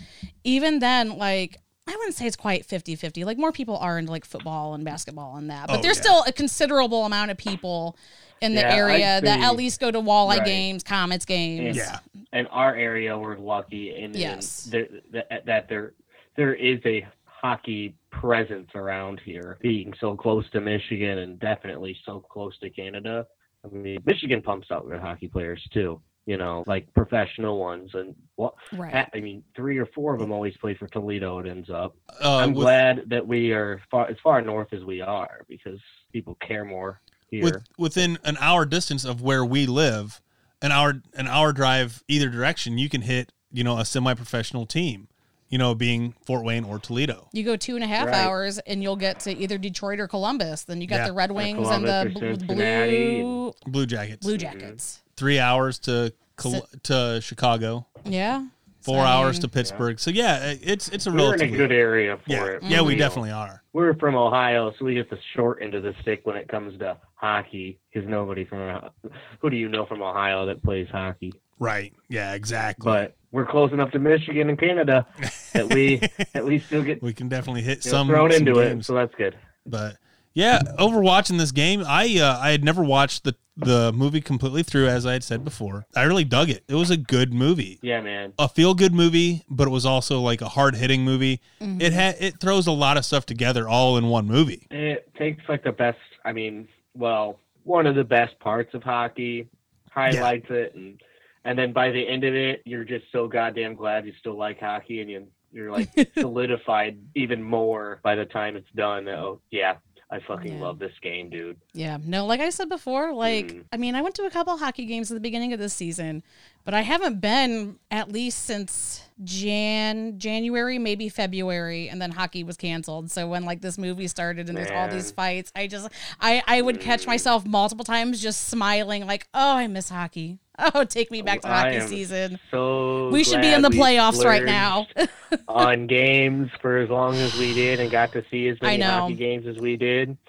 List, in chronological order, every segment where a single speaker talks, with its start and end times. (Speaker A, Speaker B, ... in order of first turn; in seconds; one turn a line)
Speaker A: 0.5-11.9
Speaker B: 5.7-6.2
Speaker C: 8.5-9.6
Speaker C: 10.2-10.7
Speaker C: 11.6-37.6
Speaker B: 11.7-12.0
Speaker A: 14.2-14.7
Speaker A: 28.7-29.1
Speaker B: 32.2-32.7
Speaker B: 37.4-47.3
Speaker A: 47.3-53.6
Speaker C: 48.0-48.3
Speaker C: 51.4-53.4
Speaker B: 53.6-54.3
Speaker A: 54.2-55.0
Speaker C: 54.4-54.8
Speaker B: 55.2-57.9
Speaker A: 58.0-59.5
Speaker B: 58.8-61.7
Speaker C: 61.1-71.4
Speaker B: 62.3-63.6
Speaker A: 62.6-63.1
Speaker B: 71.6-73.1
Speaker C: 72.8-77.0
Speaker B: 75.2-76.2
Speaker B: 77.0-78.9
Speaker C: 77.8-79.4
Speaker B: 79.7-87.8
Speaker C: 87.8-88.4
Speaker B: 88.4-94.6
Speaker A: 91.6-92.0
Speaker C: 94.7-111.6
Speaker A: 105.8-106.2
Speaker A: 110.3-110.8
Speaker A: 111.8-132.4
Speaker C: 113.2-113.6
Speaker C: 124.5-125.1
Speaker C: 126.6-127.3
Speaker C: 131.2-134.9
Speaker A: 133.1-135.4
Speaker C: 135.5-140.2
Speaker A: 138.6-139.2